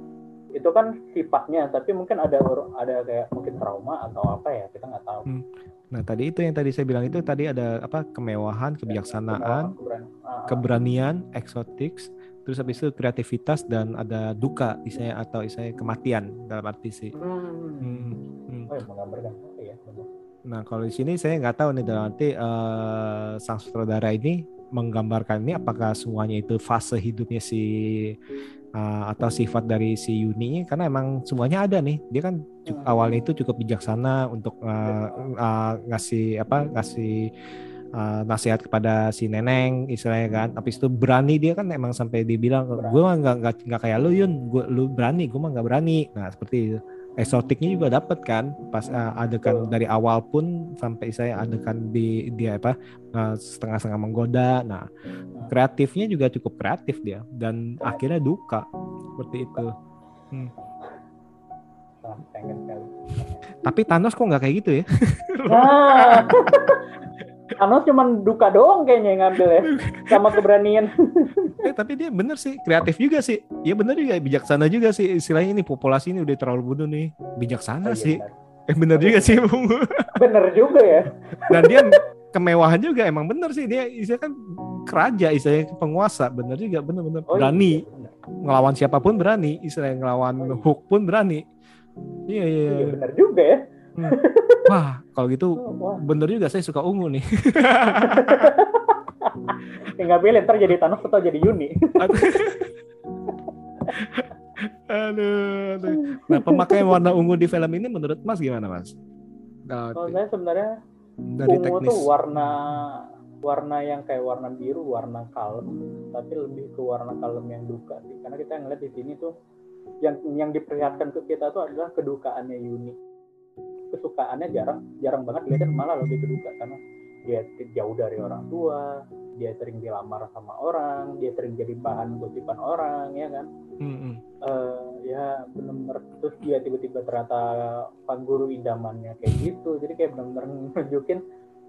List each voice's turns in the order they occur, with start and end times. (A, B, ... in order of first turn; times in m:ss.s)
0:00.6-0:05.3 A
0:05.3-0:09.7 B
0:08.9-0:10.6 A
0:10.5-0:17.1 B
0:17.1-0:18.1 A
0:17.8-0:18.8 B
0:18.7-0:20.1 A
0:20.5-0:28.2 B
0:28.8-0:37.3 B
0:32.7-0:33.1 A
0:34.8-0:35.3 A
0:38.0-0:54.9 B
0:42.7-0:43.0 A
0:47.2-0:47.5 A
0:48.8-0:49.7 A
0:55.5-0:59.7 B
1:02.0-1:03.4 A
1:03.6-1:06.5 B
1:05.5-1:06.8 A
1:07.6-1:11.6 A
1:09.6-1:10.4 B
1:11.6-1:20.1 B
1:17.8-1:18.4 A
1:19.0-1:19.5 A
1:20.2-1:22.0 A
1:21.5-1:27.8 B
1:27.3-1:28.2 A
1:28.4-1:31.4 B
1:30.4-1:30.6 A
1:32.3-1:33.0 B
1:32.7-1:34.7 A
1:34.0-1:38.5 B
1:35.6-1:36.0 A
1:37.9-1:42.4 A
1:42.0-1:42.7 B
1:43.9-1:49.0 B
1:45.9-1:46.9 A
1:49.7-1:50.2 B
1:50.0-1:50.8 A
1:51.3-1:52.5 B
1:51.5-1:59.3 A
2:00.0-2:03.0 A
2:03.9-2:13.5 A
2:13.8-2:14.2 B
2:14.4-2:21.2 A